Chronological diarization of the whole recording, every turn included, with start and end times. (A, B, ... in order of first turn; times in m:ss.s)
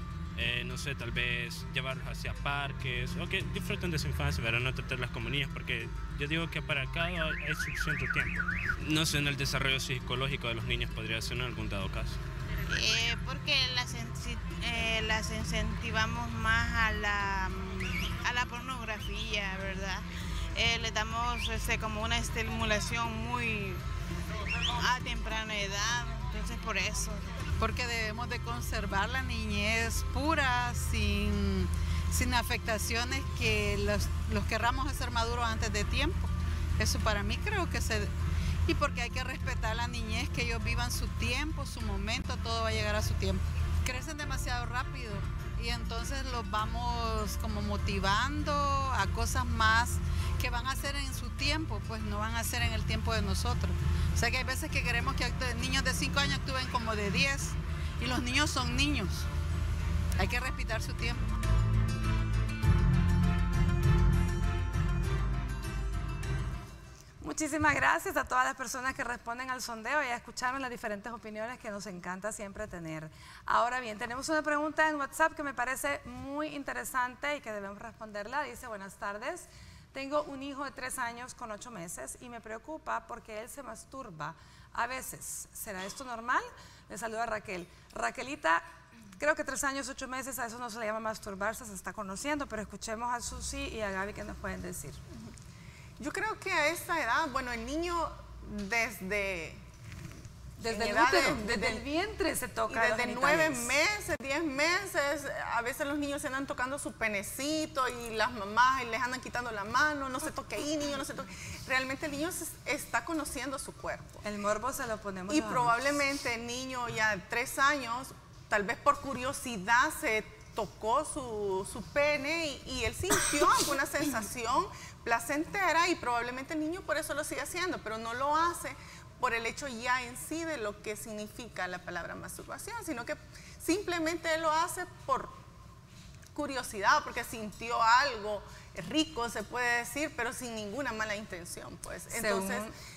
0:00.4-0:12.2 A
0:12.7-0:23.8 B
0:24.7-0:27.4 B
0:27.6-0:38.1 C
0:38.6-0:59.3 C
1:00.2-1:01.2 C
1:07.2-1:28.6 D
1:29.2-1:35.0 D
1:36.0-1:39.6 E
1:40.6-1:43.7 D
1:40.7-1:41.8 E
1:42.7-1:54.2 E
1:54.2-1:55.7 D
1:55.3-2:15.4 E
2:16.3-2:22.7 E
2:22.1-2:22.7 D